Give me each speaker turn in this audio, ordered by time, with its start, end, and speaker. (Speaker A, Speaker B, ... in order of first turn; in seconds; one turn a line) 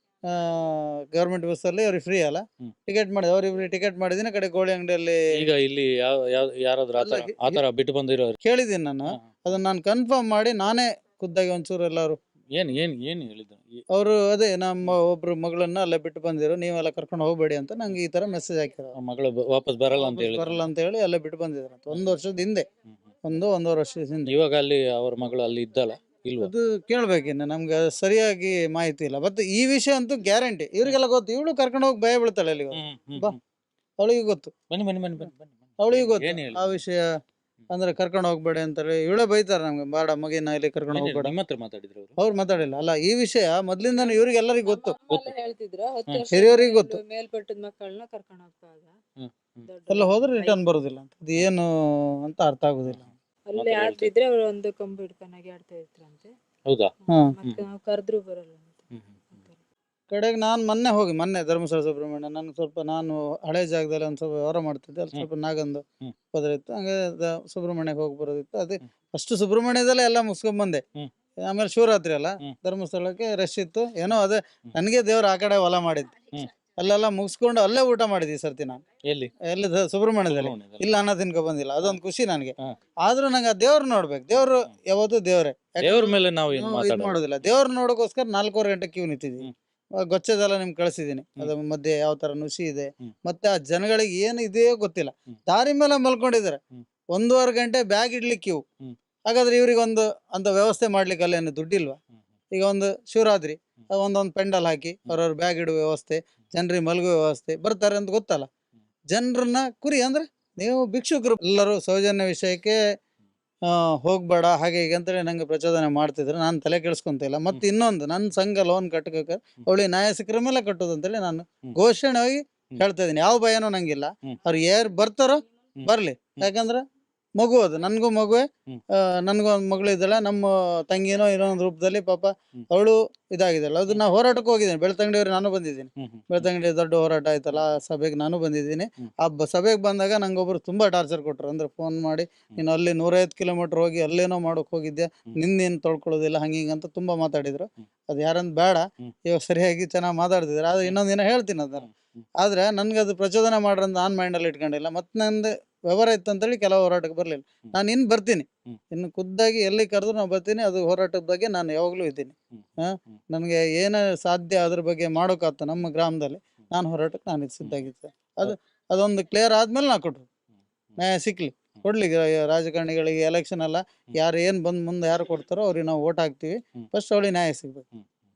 Speaker A: 0.3-5.2
Speaker B: 5.3-8.4
Speaker A: 7.0-7.6
Speaker A: 8.4-12.2
Speaker B: 12.5-13.8
Speaker A: 13.9-18.9
Speaker B: 18.9-20.6
Speaker A: 19.9-22.6
Speaker A: 23.2-24.3
Speaker B: 24.2-26.5
Speaker A: 26.4-33.4
Speaker B: 32.7-33.4
Speaker A: 34.0-34.5
Speaker B: 34.7-36.8
Speaker A: 35.8-37.0
Speaker A: 37.7-41.3
Speaker B: 40.9-42.2
Speaker A: 42.2-45.0
Speaker C: 44.0-48.9
Speaker B: 45.1-45.3
Speaker A: 46.3-47.0
Speaker B: 49.2-49.7
Speaker C: 49.6-50.6
Speaker A: 49.9-53.1
Speaker B: 52.9-54.1
Speaker C: 53.5-56.3
Speaker B: 56.6-56.9
Speaker C: 57.0-59.6
Speaker B: 58.9-59.2
Speaker A: 60.1-70.8
Speaker A: 71.4-76.1
Speaker A: 76.8-78.8
Speaker B: 79.0-79.3
Speaker A: 79.4-89.5
Speaker B: 80.3-80.8
Speaker B: 85.8-87.2
Speaker A: 90.0-96.6
Speaker A: 97.1-98.6
Speaker A: 99.3-102.0
Speaker A: 102.5-108.5
Speaker A: 109.1-112.8
Speaker A: 113.7-126.8
Speaker A: 127.4-151.9
Speaker B: 136.0-136.4
Speaker A: 152.4-170.2
Speaker A: 171.0-177.8